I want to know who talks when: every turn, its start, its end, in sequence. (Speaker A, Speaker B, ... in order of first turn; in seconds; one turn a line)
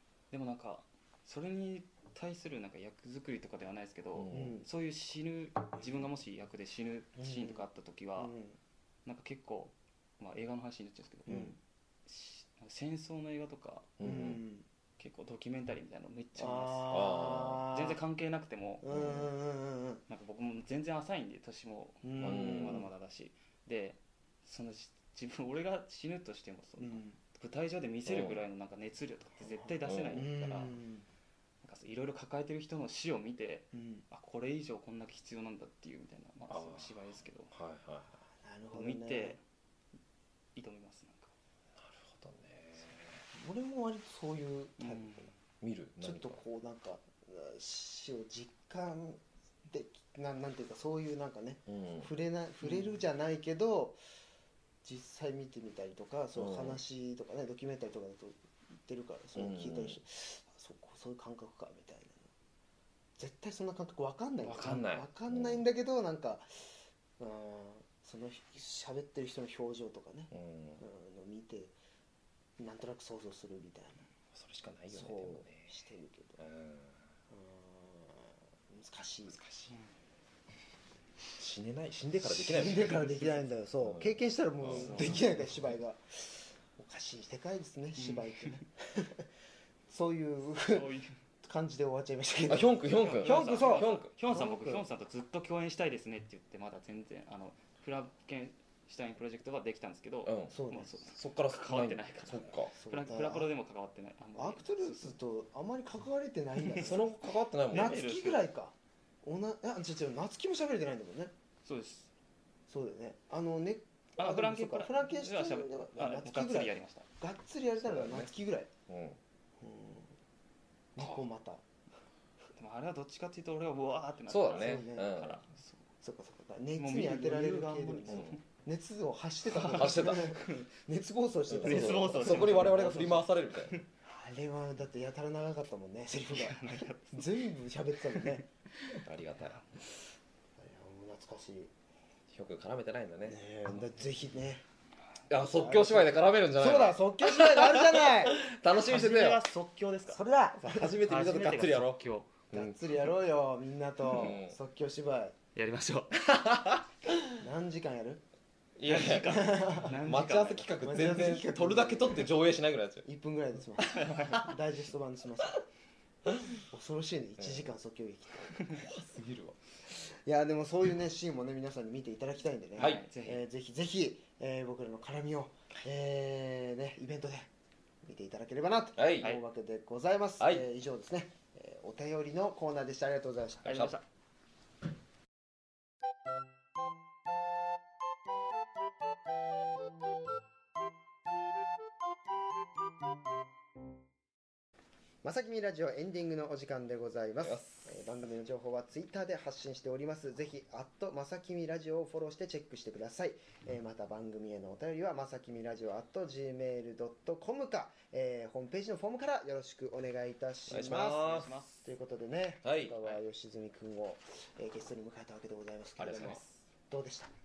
Speaker A: 0.3-8.3
Speaker B: 4.1-4.6
Speaker C: 4.3-4.7
Speaker C: 7.2-7.6
Speaker C: 8.2-8.6
Speaker A: 9.0-11.5
Speaker C: 11.2-11.6
Speaker A: 12.1-13.9
Speaker B: 14.0-14.4
Speaker C: 14.0-14.7
Speaker A: 15.0-18.8
Speaker C: 16.4-18.0
Speaker B: 16.9-17.6
Speaker C: 18.8-20.0
Speaker B: 18.9-19.3
Speaker A: 20.1-30.8
Speaker C: 22.0-22.9
Speaker B: 22.2-22.9
Speaker C: 26.8-27.2
Speaker B: 28.1-28.4
Speaker C: 29.4-31.0
Speaker B: 29.8-30.3
Speaker A: 31.6-37.5
Speaker C: 33.7-34.0
Speaker B: 36.5-38.2
Speaker C: 38.4-39.4
Speaker A: 38.7-39.4
Speaker A: 40.5-41.3
Speaker B: 41.8-43.2
Speaker C: 43.3-45.3
Speaker A: 44.8-45.3
Speaker B: 45.6-46.4
Speaker C: 46.0-54.0
Speaker B: 51.7-52.1
Speaker A: 52.6-53.0
Speaker C: 54.8-62.3
Speaker B: 56.3-56.8
Speaker B: 59.3-60.0
Speaker C: 63.2-71.8
Speaker B: 64.4-65.6
Speaker B: 70.3-70.8
Speaker C: 72.6-74.1
Speaker B: 74.3-75.8
Speaker C: 74.9-76.4
Speaker B: 76.4-77.1
Speaker C: 77.3-79.4
Speaker B: 79.3-79.8
Speaker B: 81.4-83.2
Speaker C: 82.2-89.2
Speaker B: 83.8-85.2
Speaker A: 84.7-85.5
Speaker A: 88.0-88.6
Speaker C: 89.9-94.8
Speaker A: 90.6-91.2
Speaker B: 92.5-94.1
Speaker A: 92.8-105.2
Speaker B: 100.2-100.6
Speaker C: 100.5-100.9
Speaker B: 101.1-102.7
Speaker C: 102.7-103.5
Speaker C: 104.3-107.1
Speaker B: 106.7-108.0
Speaker A: 107.7-108.5
Speaker C: 107.7-111.3
Speaker A: 111.6-112.1
Speaker C: 112.7-118.7
Speaker A: 114.2-117.1
Speaker B: 117.8-118.3
Speaker B: 118.9-119.2
Speaker C: 119.6-120.1
Speaker C: 120.9-121.6
Speaker B: 121.0-121.2
Speaker A: 122.5-125.8
Speaker B: 124.3-125.4
Speaker C: 124.5-125.1
Speaker C: 126.0-132.8
Speaker A: 126.8-128.4
Speaker B: 128.1-128.4
Speaker B: 129.5-130.3
Speaker A: 129.5-130.7
Speaker B: 131.5-133.8
Speaker A: 131.6-133.9
Speaker C: 134.0-138.5
Speaker A: 136.3-137.4
Speaker A: 138.1-139.7
Speaker B: 139.0-139.6
Speaker C: 140.6-141.7
Speaker B: 142.3-143.4
Speaker C: 143.3-144.6
Speaker B: 145.3-149.4
Speaker C: 145.3-148.4
Speaker A: 148.7-152.3
Speaker C: 150.1-150.9
Speaker B: 150.4-152.8
Speaker C: 152.5-155.3
Speaker B: 154.1-154.6
Speaker A: 155.5-156.2
Speaker B: 156.1-157.3
Speaker C: 157.3-158.2
Speaker B: 158.8-163.1
Speaker A: 158.8-160.8
Speaker C: 158.9-159.9
Speaker C: 160.8-162.4
Speaker C: 163.0-165.6
Speaker A: 163.8-164.5
Speaker C: 166.6-168.8
Speaker B: 167.4-167.7
Speaker B: 168.7-169.6
Speaker C: 169.9-177.5
Speaker B: 172.8-173.0
Speaker A: 172.8-173.4
Speaker C: 178.0-183.7
Speaker B: 178.9-179.3
Speaker B: 180.4-180.6
Speaker A: 183.6-184.0
Speaker B: 183.7-183.9
Speaker C: 195.2-211.3
Speaker B: 197.4-197.8
Speaker B: 210.7-211.5
Speaker A: 210.8-211.9
Speaker C: 211.8-217.3
Speaker B: 212.6-213.0
Speaker B: 216.0-216.5